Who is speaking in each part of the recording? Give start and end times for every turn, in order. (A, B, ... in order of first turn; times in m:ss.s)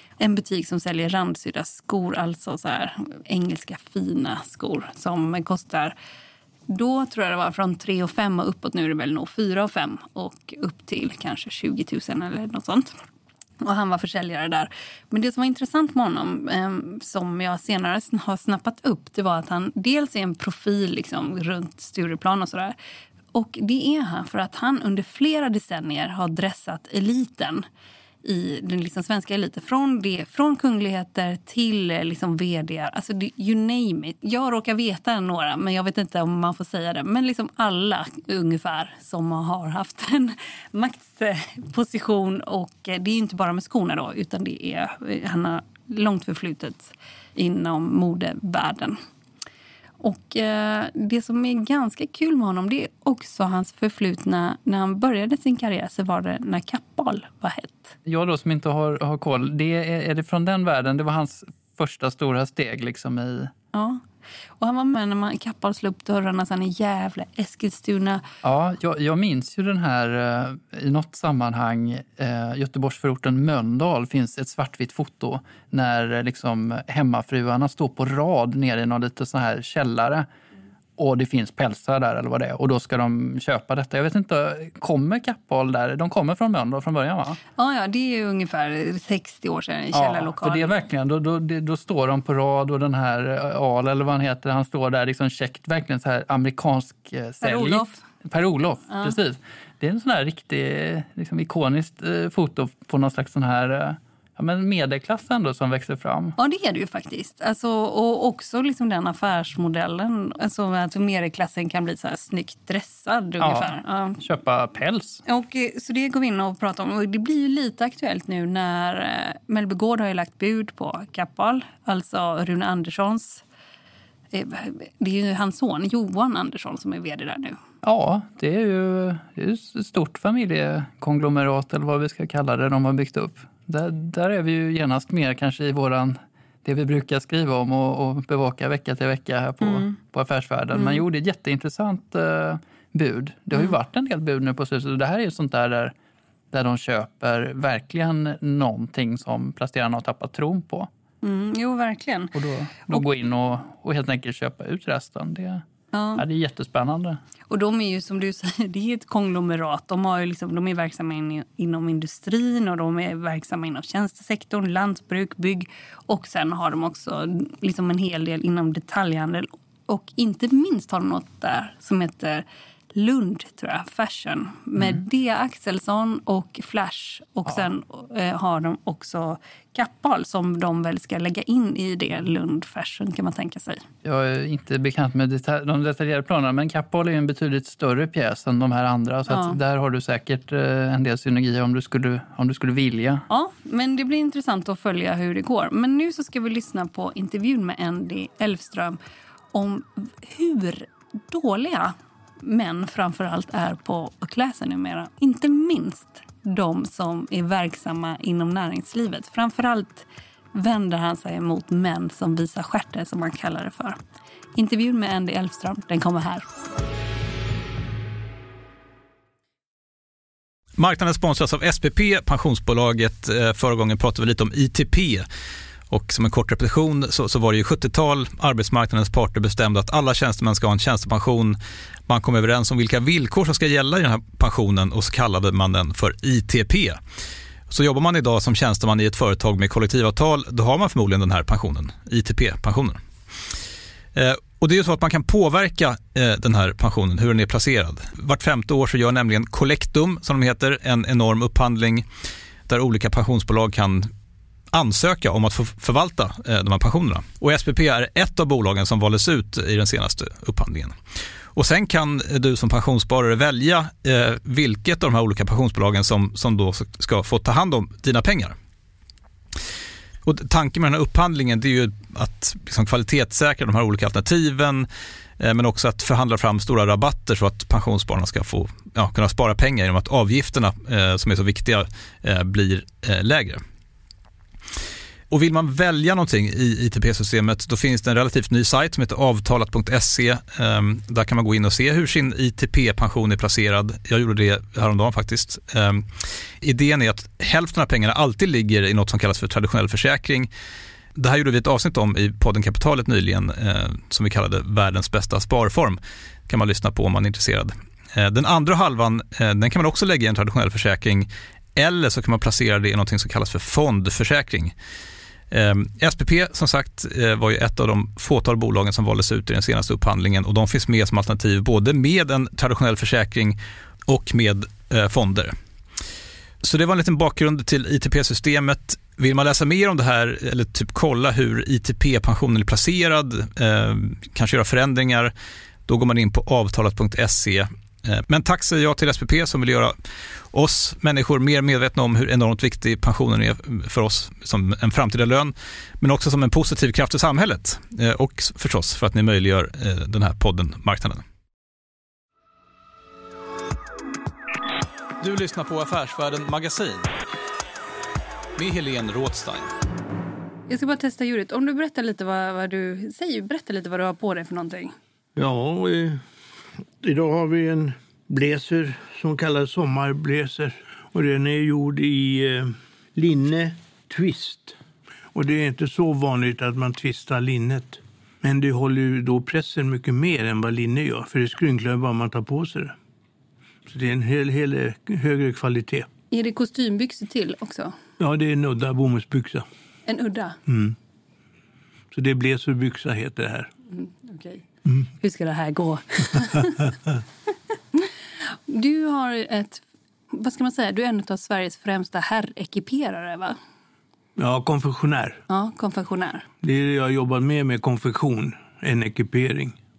0:00.2-0:06.0 A
0:06.7-0:13.0 A
0:13.6-0:22.8 A
0:23.3-0:27.6 A
0:28.2-0:49.0 A
0:50.0-0:58.0 A
0:58.0-1:03.5 B
1:03.7-1:04.0 A
1:04.6-1:08.2 A
1:08.4-1:20.3 B
1:21.0-1:27.4 B
1:27.6-1:30.8 A
1:29.9-1:46.4 B
1:37.4-1:38.0 A
1:38.9-1:39.2 A
1:46.4-1:54.2 A
1:53.4-1:55.2 B
1:55.3-2:03.4 A
2:04.3-2:07.6 A
2:07.8-2:26.0 B
2:19.6-2:19.9 A
2:20.7-2:21.0 A
2:26.5-2:30.9 B
2:31.2-2:32.3 A
2:32.4-2:35.6 B
2:35.9-2:36.2 A
2:36.2-2:37.2 B
2:37.5-3:03.8 A
3:04.0-3:13.2 B
3:09.3-3:09.6 A
3:13.3-3:19.0 A
3:19.5-3:34.0 A
3:34.6-3:36.5 A
3:40.8-3:45.3 C
3:45.9-3:51.6 C
3:52.1-3:57.0 C
3:57.7-4:03.0 C
4:04.2-4:12.0 C
4:12.7-4:14.1 C
4:14.7-4:21.0 C
4:21.6-4:28.6 C
4:30.3-4:34.9 C
4:35.4-4:43.6 C
4:45.3-4:56.1 C
4:56.6-5:00.5 C
5:01.2-5:14.7 C
5:15.5-5:25.6 C
5:26.6-5:35.3 C
5:35.9-5:39.9 C
5:40.5-5:51.2 C
5:55.2-5:57.1 C
5:58.6-5:59.7 C
6:00.7-6:04.9 A
6:05.4-6:06.2 D
6:07.0-6:14.8 D
6:15.3-6:23.0 D
6:23.9-6:26.1 D
6:26.3-6:27.9 A
6:28.2-6:29.7 D
6:30.1-6:30.6 A
6:30.7-6:31.0 D
6:32.1-6:33.7 D
6:33.9-6:34.6 A
6:35.2-6:37.0 A
6:37.9-6:43.6 A
6:44.4-6:45.4 D
6:45.5-6:46.5 A
6:46.6-6:49.8 D